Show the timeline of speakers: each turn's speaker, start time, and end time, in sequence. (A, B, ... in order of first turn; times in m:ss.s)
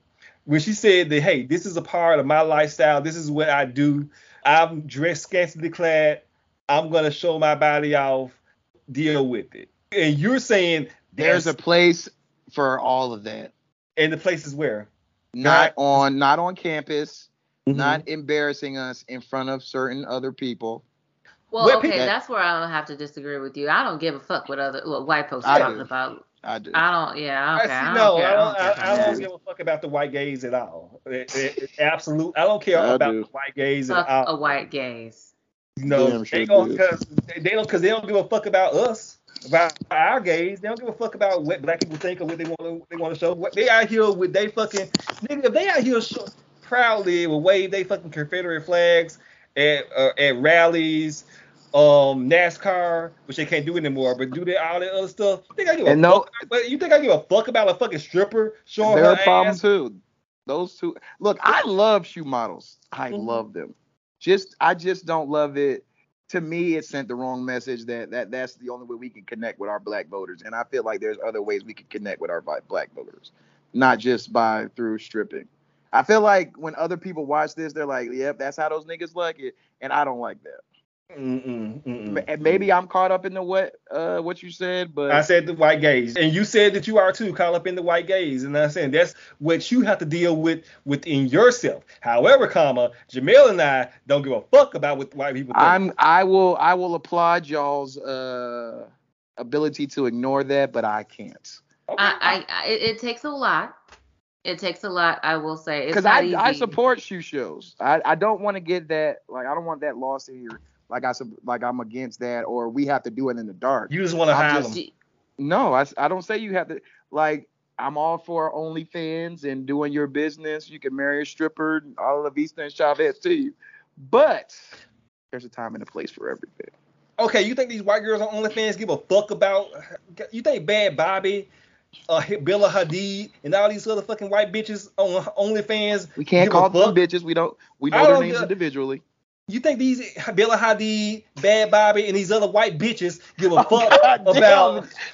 0:00.4-0:08.4 A
0:08.9-0:11.5 A
0:11.2-0:13.5 B
0:14.0-0:14.9 A
0:15.3-0:20.8 B
0:15.4-0:16.0 A
0:17.7-0:18.0 A
0:21.5-0:29.2 C
0:21.6-0:22.1 A
0:25.4-0:25.8 A
0:25.4-0:25.8 B
0:26.4-0:26.8 B
0:27.6-0:34.3 A
0:28.8-0:29.2 B
0:32.7-0:33.2 B
0:33.9-0:35.3 C
0:35.8-0:59.6 A
0:35.9-0:36.8 B
0:55.8-0:56.3 B
0:58.8-1:20.6 B
1:21.1-1:22.6 A
1:22.0-1:25.2 B
1:25.1-1:35.8 A
1:35.5-1:41.6 B
1:41.9-1:42.4 A
1:42.0-1:43.7 C
1:44.4-1:46.7 C
1:45.9-1:54.7 B
1:53.9-1:54.8 A
1:54.7-1:54.9 C
1:55.4-2:04.7 B
2:05.3-2:06.7 B
2:07.2-2:11.5 A
2:12.1-2:17.0 A
2:16.2-2:19.0 B
2:17.9-2:18.5 A
2:19.5-2:24.8 A
2:23.5-2:24.9 B